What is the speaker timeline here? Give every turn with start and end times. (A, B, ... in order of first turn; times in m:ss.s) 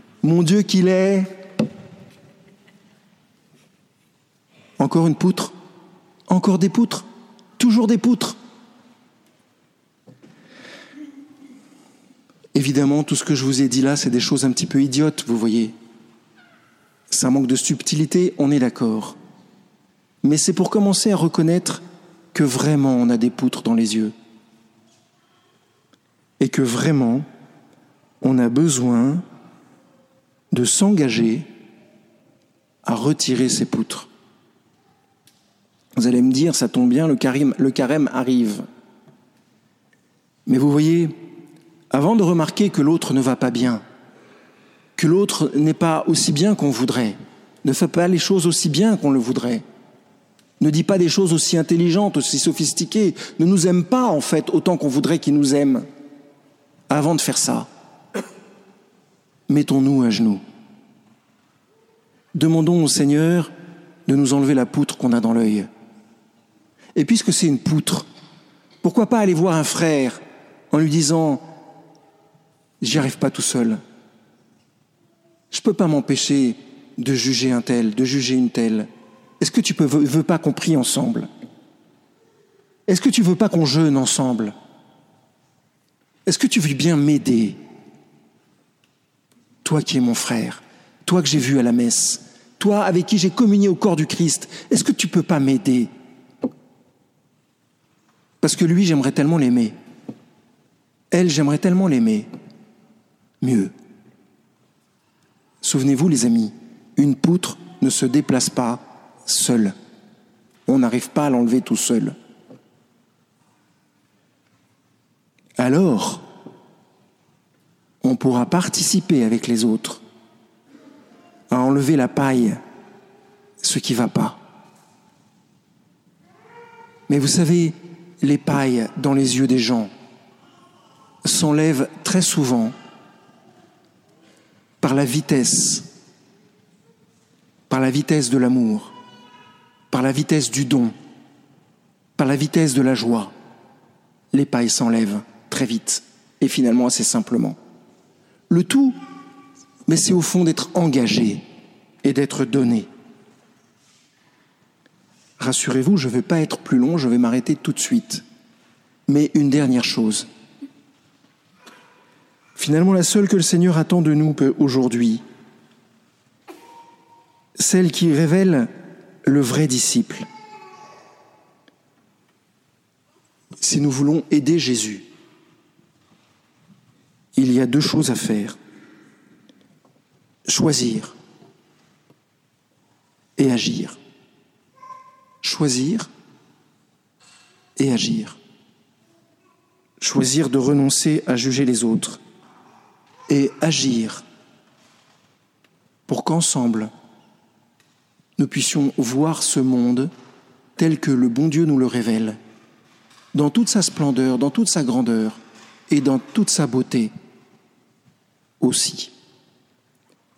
0:00.2-0:01.3 A
0:04.8-0:05.5 A
0:06.3-0:07.1 A
0:07.6-0:08.4 A
0:12.5-0:15.7 A
0:17.1-0:19.2 A
0:20.2-0:21.8 A
0:22.3-0:24.1 A
0:26.4-0:27.3 A
0:28.2-0:29.2 A
0:30.5-0:31.5 A
0:32.8-0:34.1 A
0:36.0-0:38.6 A
0:40.5-0:41.1 A
0:41.9-0:43.8 A
0:45.0-0:49.6 A
0:50.6-0:55.9 A
0:56.9-0:57.7 A
0:59.5-1:00.4 A
1:02.4-1:03.5 A
1:04.1-1:05.7 A
1:07.0-1:08.1 A
1:08.8-1:11.4 A
1:12.8-1:13.8 A
1:15.5-1:18.9 A
1:19.4-1:21.3 A
1:22.9-1:24.5 A
1:26.3-1:27.6 A
1:29.6-1:35.9 A
1:38.4-1:39.8 A
1:41.1-1:42.3 A
1:43.4-1:43.7 A
1:45.6-1:49.8 A
1:50.7-1:52.2 A
1:55.6-1:56.2 A
1:58.0-2:00.0 A
2:01.5-2:02.6 A
2:03.6-2:04.4 A
2:07.1-2:09.9 A
2:11.2-2:12.7 A
2:14.8-2:15.9 A
2:17.7-2:18.9 A
2:19.9-2:20.9 A
2:22.2-2:23.3 A
2:24.3-2:27.6 A
2:28.5-2:29.0 A
2:29.9-2:31.4 A
2:32.0-2:32.9 A
2:35.4-2:38.2 A
2:39.1-2:40.3 A
2:42.6-2:45.2 A
2:47.6-2:48.7 A
2:49.2-2:50.3 A
2:53.6-2:55.0 A
2:57.4-2:58.6 A
3:00.5-3:01.1 A
3:03.4-3:04.0 A
3:05.4-3:06.1 A
3:07.8-3:08.4 A
3:10.0-3:12.2 A
3:13.3-3:14.2 A
3:16.1-3:16.9 A
3:18.4-3:20.1 A
3:20.8-3:22.4 A
3:23.3-3:27.1 A
3:28.6-3:29.1 A